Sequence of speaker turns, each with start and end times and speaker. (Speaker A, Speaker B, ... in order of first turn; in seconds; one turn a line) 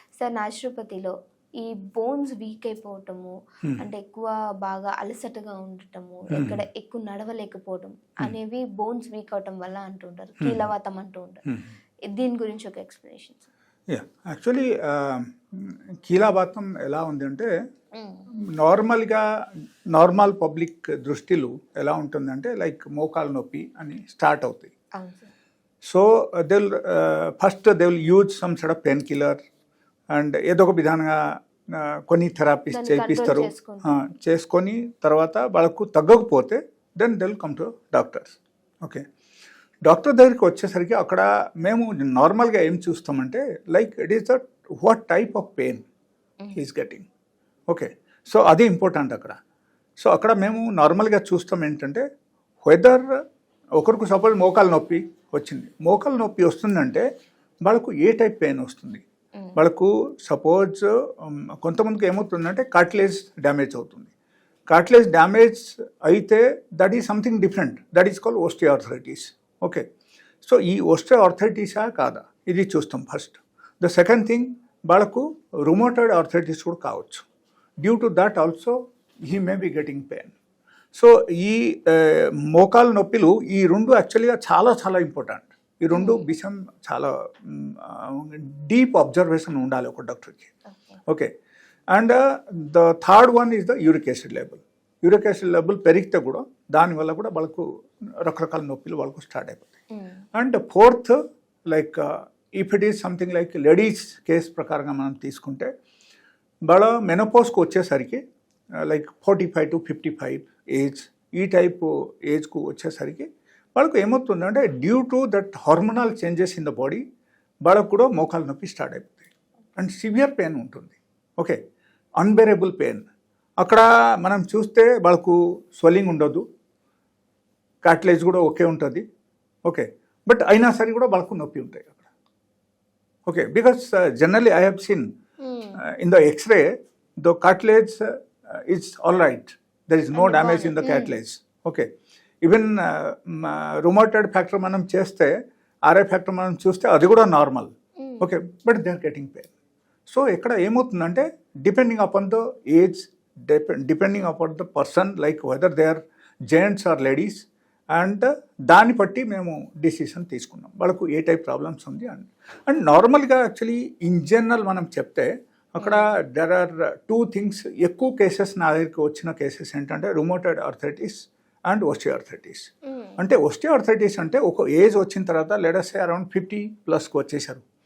Speaker A: 0.2-11.4
Speaker B: 6.3-6.6
Speaker B: 10.4-10.7
Speaker A: 12.1-13.5
Speaker B: 13.9-17.5
Speaker A: 17.9-18.2
Speaker B: 18.6-19.2
Speaker B: 19.9-24.7
Speaker A: 25.0-25.3
Speaker B: 25.8-29.4
Speaker B: 30.1-31.2
Speaker B: 31.7-39.0
Speaker A: 32.7-33.9
Speaker B: 39.9-45.8
Speaker B: 46.5-47.1
Speaker B: 47.7-49.4
Speaker B: 50.0-52.0
Speaker B: 52.6-53.0
Speaker B: 53.8-57.1
Speaker B: 57.6-64.1
Speaker B: 64.7-69.8
Speaker B: 70.4-77.3
Speaker B: 77.8-78.8
Speaker B: 79.3-80.3
Speaker B: 81.0-90.5
Speaker A: 86.0-86.2
Speaker A: 90.7-91.0
Speaker B: 91.9-97.7
Speaker B: 98.2-99.7
Speaker B: 100.3-101.2
Speaker B: 101.7-105.7
Speaker B: 106.7-108.2
Speaker B: 108.8-117.0
Speaker B: 117.7-121.6
Speaker B: 122.2-123.1
Speaker B: 123.6-126.4
Speaker B: 127.8-129.0
Speaker B: 129.7-132.1
Speaker B: 133.3-135.1
Speaker A: 135.4-135.8
Speaker B: 136.0-136.7
Speaker B: 137.2-138.0
Speaker B: 138.7-141.9
Speaker A: 140.2-141.2
Speaker B: 142.4-145.3
Speaker B: 145.9-149.5
Speaker B: 150.1-177.6
Speaker A: 172.9-173.2